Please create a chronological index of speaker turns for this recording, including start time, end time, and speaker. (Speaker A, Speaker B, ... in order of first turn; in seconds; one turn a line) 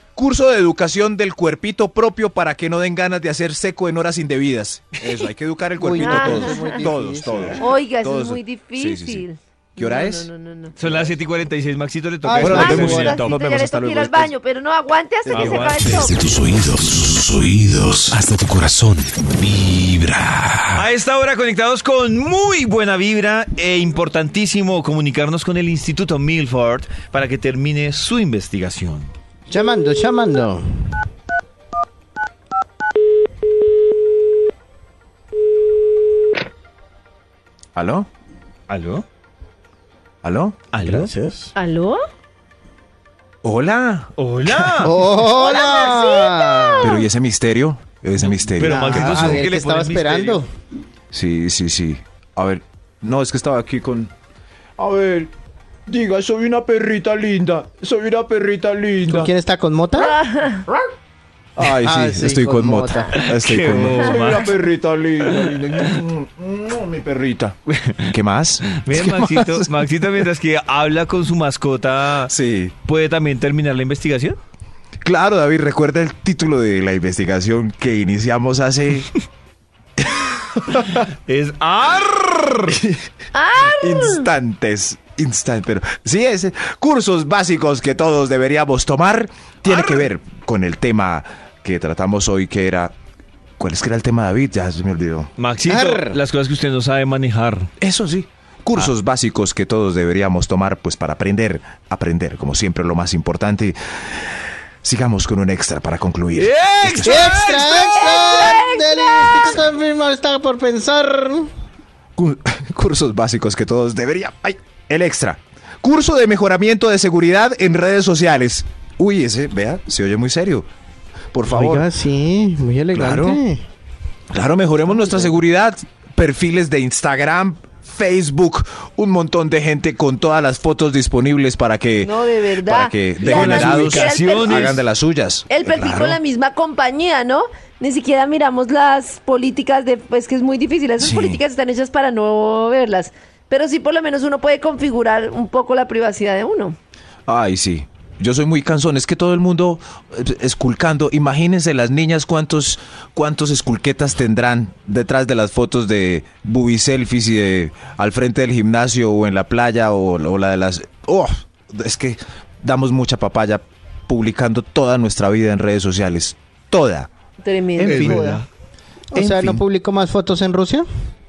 Speaker A: 0.2-9.2
Speaker B: 5.8-7.6
Speaker C: 6.0-6.8
Speaker C: 7.6-11.1
Speaker A: 9.8-10.3
Speaker D: 10.8-13.3
Speaker B: 12.2-13.2
Speaker A: 12.4-14.3
Speaker C: 12.5-16.2
Speaker A: 15.3-16.0
Speaker D: 15.3-16.1
Speaker E: 15.8-20.8
Speaker D: 20.8-29.1
Speaker B: 29.5-30.9
Speaker A: 37.8-38.1
Speaker D: 38.7-39.0
Speaker A: 40.2-40.7
Speaker D: 40.7-41.1
Speaker B: 40.8-41.5
Speaker C: 41.5-42.0
Speaker A: 43.4-44.9
Speaker D: 44.2-45.0
Speaker B: 44.8-47.0
Speaker C: 45.2-47.0
Speaker A: 46.8-49.5
Speaker D: 48.2-50.4
Speaker B: 48.6-50.5
Speaker A: 51.1-54.1
Speaker A: 54.8-55.3
Speaker A: 55.9-59.3
Speaker B: 59.1-60.1
Speaker C: 60.0-60.7
Speaker A: 61.6-69.7
Speaker B: 61.7-63.2
Speaker D: 63.1-64.6
Speaker D: 65.4-65.9
Speaker D: 67.7-68.1
Speaker D: 68.7-72.3
Speaker A: 72.3-72.8
Speaker D: 72.9-74.4
Speaker A: 75.0-79.1
Speaker A: 80.0-81.0
Speaker D: 81.0-82.8
Speaker A: 82.7-83.0
Speaker C: 83.3-84.3
Speaker A: 83.6-93.0
Speaker D: 89.7-90.0
Speaker A: 93.6-95.3
Speaker D: 95.4-97.7
Speaker B: 95.7-96.2
Speaker A: 97.8-107.9
Speaker D: 106.4-107.8
Speaker B: 107.0-111.5
Speaker C: 107.4-109.6
Speaker A: 112.2-120.7
Speaker A: 121.3-121.9
Speaker B: 121.5-123.6
Speaker A: 122.9-123.4
Speaker A: 124.3-136.2
Speaker C: 132.0-134.8
Speaker D: 133.2-134.8
Speaker C: 135.5-146.8
Speaker A: 141.0-141.4
Speaker A: 147.3-167.1
Speaker C: 167.4-168.2
Speaker A: 167.8-168.4
Speaker D: 167.9-168.4
Speaker B: 167.9-168.4
Speaker B: 169.1-170.9
Speaker A: 169.1-169.7